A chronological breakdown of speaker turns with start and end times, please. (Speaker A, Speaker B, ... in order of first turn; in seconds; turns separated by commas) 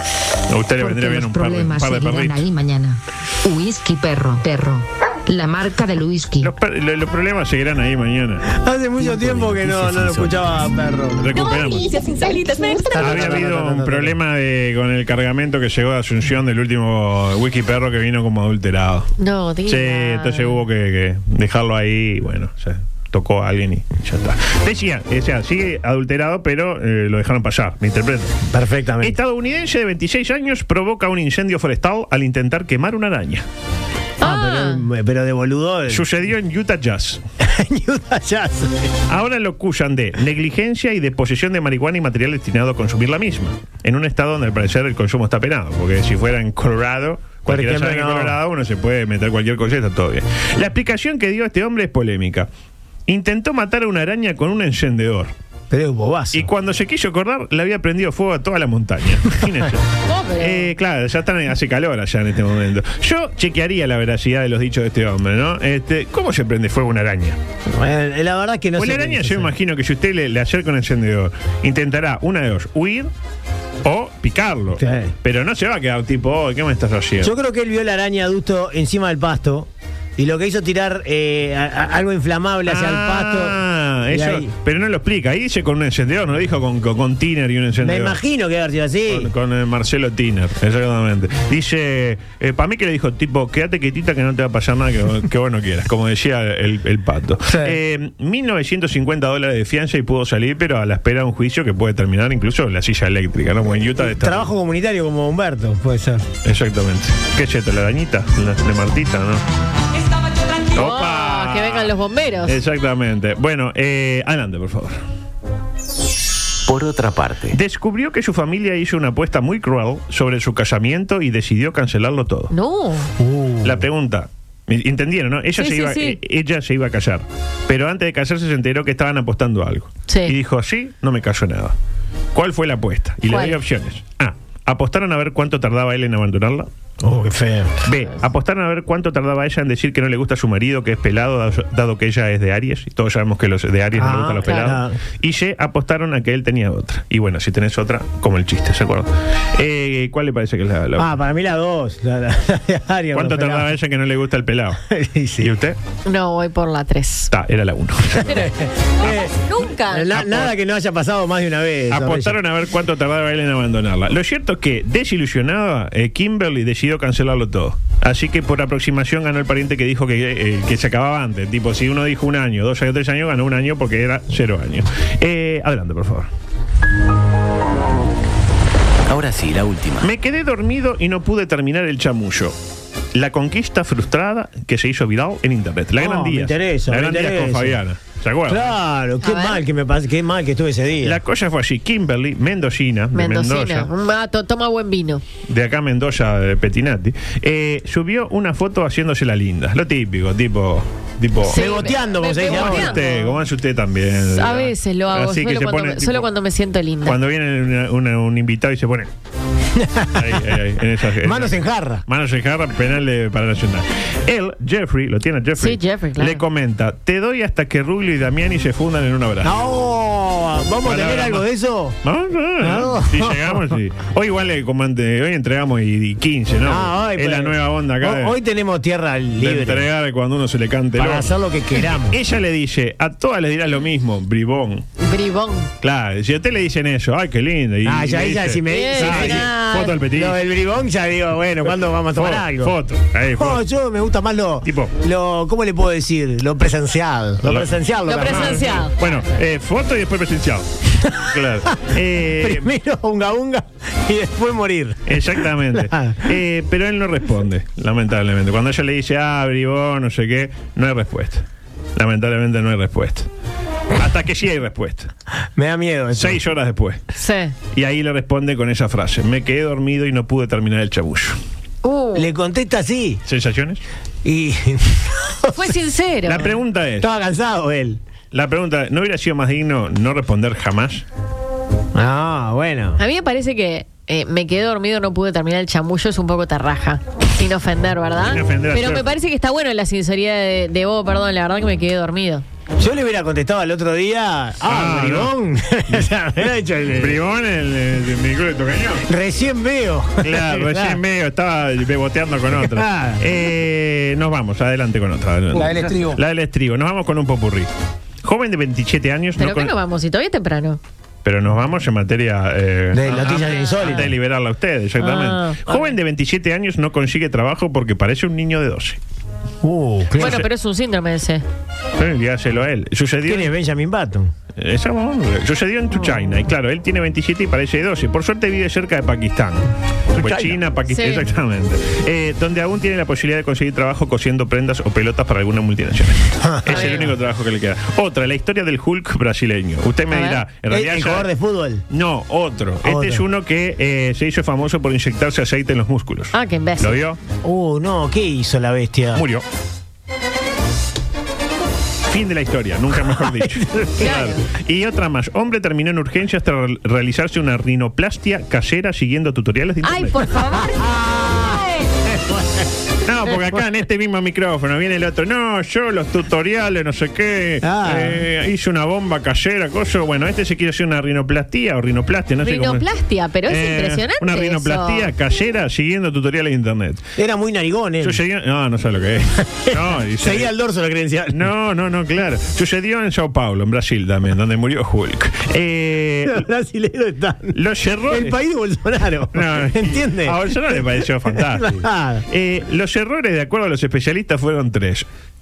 Speaker A: 0.5-2.4, Speaker B: 0.8-6.5, Speaker A: 6.4-8.5, Speaker C: 8.5-11.3, Speaker D: 9.0-10.4, Speaker A: 11.2-11.9, Speaker E: 11.3-13.1, Speaker C: 12.9-14.2, Speaker A: 12.9-19.1, Speaker E: 19.2-20.6, Speaker A: 19.6-28.4, Speaker C: 28.5-29.2, Speaker A: 29.0-33.4, Speaker E: 34.2-34.8, Speaker C: 34.2-36.1, Speaker A: 35.9-37.2, Speaker C: 37.4-38.9, Speaker A: 39.1-52.5, Speaker C: 47.5-48.4, Speaker A: 53.1-55.3, Speaker C: 55.7-56.5, Speaker A: 56.3-59.9, Speaker E: 60.1-60.7, Speaker A: 60.4-67.4, Speaker C: 67.7-69.5, Speaker A: 68.8-73.1, Speaker A: 73.8-77.3, Speaker C: 74.8-75.1, Speaker C: 77.2-83.6, Speaker A: 82.6-88.2, Speaker C: 84.1-84.5, Speaker C: 87.8-89.3, Speaker A: 89.1-104.5, Speaker C: 97.5-97.8, Speaker C: 104.0-106.2, Speaker A: 106.4-109.4, Speaker E: 110.7-112.6, Speaker A: 110.7-115.0, Speaker D: 116.7-117.6, Speaker A: 117.5-122.5, Speaker E: 122.5-123.1, Speaker C: 123.2-123.8, Speaker A: 123.6-131.7, Speaker E: 125.5-126.2, Speaker E: 130.1-130.3, Speaker A: 132.3-136.7, Speaker E: 133.3-133.6, Speaker C: 137.0-137.7, Speaker A: 137.8-151.1, Speaker C: 143.9-144.9, Speaker E: 144.4-144.7, Speaker C: 151.0-153.7, Speaker A: 153.1-154.8, Speaker C: 154.9-155.5, Speaker A: 155.4-155.8, Speaker E: 156.1-157.3, Speaker A: 157.3-158.5, Speaker C: 158.2-159.3, Speaker E: 159.0-160.1, Speaker C: 159.8-162.4, Speaker A: 160.1-160.6, Speaker A: 161.9-176.3, Speaker D: 179.1-180.1, Speaker A: 180.0-182.5, Speaker A: 183.1-188.7, Speaker C: 186.0-187.8, Speaker C: 188.5-191.2, Speaker E: 189.2-189.6, Speaker A: 191.0-193.9, Speaker E: 193.1-195.2, Speaker A: 195.5-201.7, Speaker E: 201.5-203.3, Speaker C: 201.5-203.0, Speaker A: 202.4-206.3, Speaker E: 204.3-207.2, Speaker A: 207.0-209.1, Speaker C: 209.8-210.4, Speaker A: 210.1-219.6, Speaker C: 211.2-212.0, Speaker E: 215.6-216.4, Speaker C: 219.4-222.0, Speaker A: 220.8-221.4, Speaker A: 222.0-228.3, Speaker C: 222.6-223.6, Speaker C: 226.6-229.9, Speaker A: 229.4-231.3, Speaker C: 231.0-232.2, Speaker A: 232.1-234.8, Speaker E: 235.0-235.7, Speaker A: 235.8-240.4, Speaker C: 237.8-239.5, Speaker E: 238.7-240.0, Speaker C: 240.1-242.7, Speaker A: 241.7-243.6, Speaker C: 243.4-248.6, Speaker A: 244.6-244.9, Speaker A: 247.4-252.7, Speaker E: 248.1-248.9, Speaker C: 252.4-256.3, Speaker A: 255.1-261.4, Speaker A: 261.9-263.3, Speaker A: 263.9-265.1, Speaker C: 265.6-266.4, Speaker A: 266.1-267.0, Speaker E: 267.2-267.5, Speaker A: 267.7-271.4, Speaker E: 271.8-272.2, Speaker C: 272.1-273.2, Speaker A: 273.2-273.8, Speaker C: 274.2-275.7, Speaker E: 275.5-276.5, Speaker A: 276.2-277.1, Speaker C: 277.0-278.0, Speaker A: 278.3-281.0, Speaker C: 281.9-283.0, Speaker E: 283.0-292.4, Speaker A: 288.2-289.1, Speaker C: 292.8-297.2, Speaker A: 294.6-295.3, Speaker A: 296.9-299.0, Speaker C: 299.1-301.0, Speaker A: 300.2-307.7, Speaker C: 302.5-303.3, Speaker C: 305.5-306.2, Speaker A: 308.2-309.7, Speaker E: 309.4-310.8, Speaker A: 311.2-319.0, Speaker C: 312.9-314.1, Speaker E: 313.3-314.1, Speaker E: 315.0-315.9, Speaker C: 319.6-320.4, Speaker E: 320.2-321.4, Speaker A: 320.2-320.4, Speaker A: 321.9-323.5, Speaker C: 323.2-324.3, Speaker A: 324.6-329.6, Speaker A: 330.1-341.3, Speaker C: 330.2-330.5, Speaker E: 330.9-331.2, Speaker C: 336.4-337.1, Speaker E: 336.7-337.1, Speaker E: 340.1-340.4, Speaker C: 340.7-341.8, Speaker A: 341.9-347.2, Speaker C: 342.8-343.2, Speaker E: 346.3-347.0, Speaker C: 347.4-349.2, Speaker A: 349.1-349.4, Speaker A: 352.1-360.3, Speaker C: 353.1-353.8, Speaker E: 354.0-354.4, Speaker E: 359.8-361.9, Speaker C: 360.7-362.7, Speaker A: 363.0-372.9, Speaker C: 363.3-363.6, Speaker C: 367.6-368.2, Speaker E: 372.4-375.1, Speaker A: 373.4-377.0, Speaker C: 377.2-378.2, Speaker A: 378.0-380.5, Speaker C: 379.6-381.5, Speaker A: 381.3-386.4, Speaker C: 386.2-392.2, Speaker A: 387.5-388.4, Speaker A: 389.3-395.1